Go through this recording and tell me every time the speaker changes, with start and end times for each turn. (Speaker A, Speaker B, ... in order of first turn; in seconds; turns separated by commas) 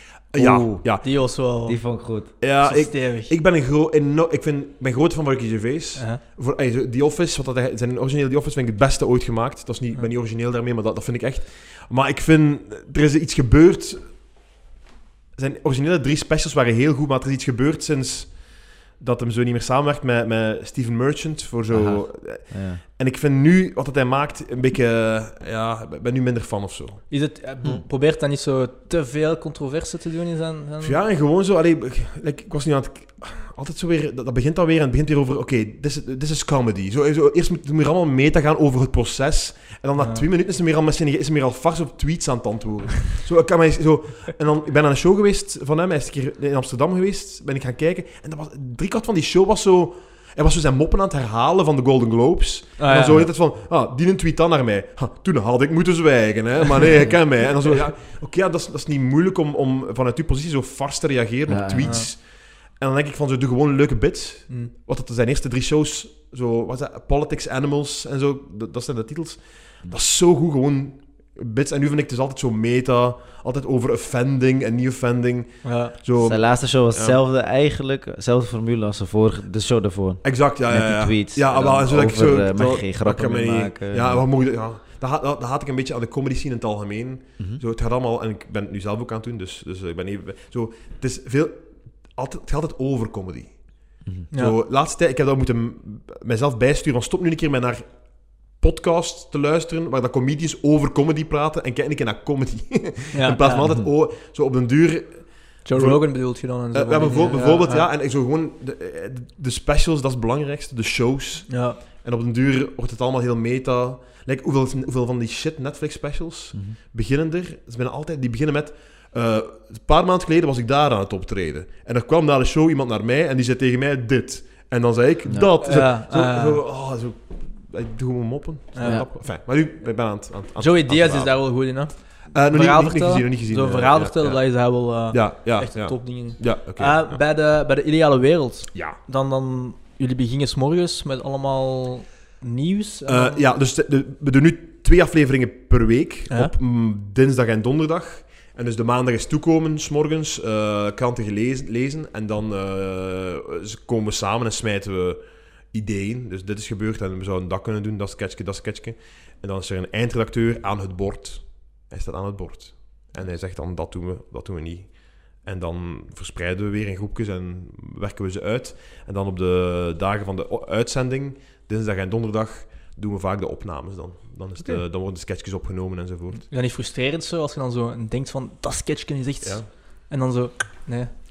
Speaker A: 0.3-1.0, Speaker B: 0.3-2.3, Speaker C: 1.0-3.3, Speaker A: 2.4-14.2, Speaker A: 15.3-18.4, Speaker A: 19.0-27.0, Speaker B: 21.7-22.8, Speaker C: 27.1-31.0, Speaker A: 30.8-77.2, Speaker C: 52.8-53.2, Speaker B: 61.5-62.0, Speaker C: 61.8-62.1, Speaker C: 75.6-75.9, Speaker B: 76.2-84.2, Speaker A: 80.2-93.7, Speaker B: 94.0-94.3, Speaker A: 94.3-131.4, Speaker C: 103.1-103.7, Speaker C: 105.6-107.9, Speaker C: 111.5-111.8, Speaker B: 125.3-125.5, Speaker C: 125.6-126.6, Speaker C: 128.7-129.1, Speaker B: 128.8-129.1, Speaker C: 130.6-143.4, Speaker A: 132.3-137.2, Speaker A: 138.7-139.0, Speaker A: 143.1-176.5, Speaker C: 176.5-181.1, Speaker A: 179.4-179.7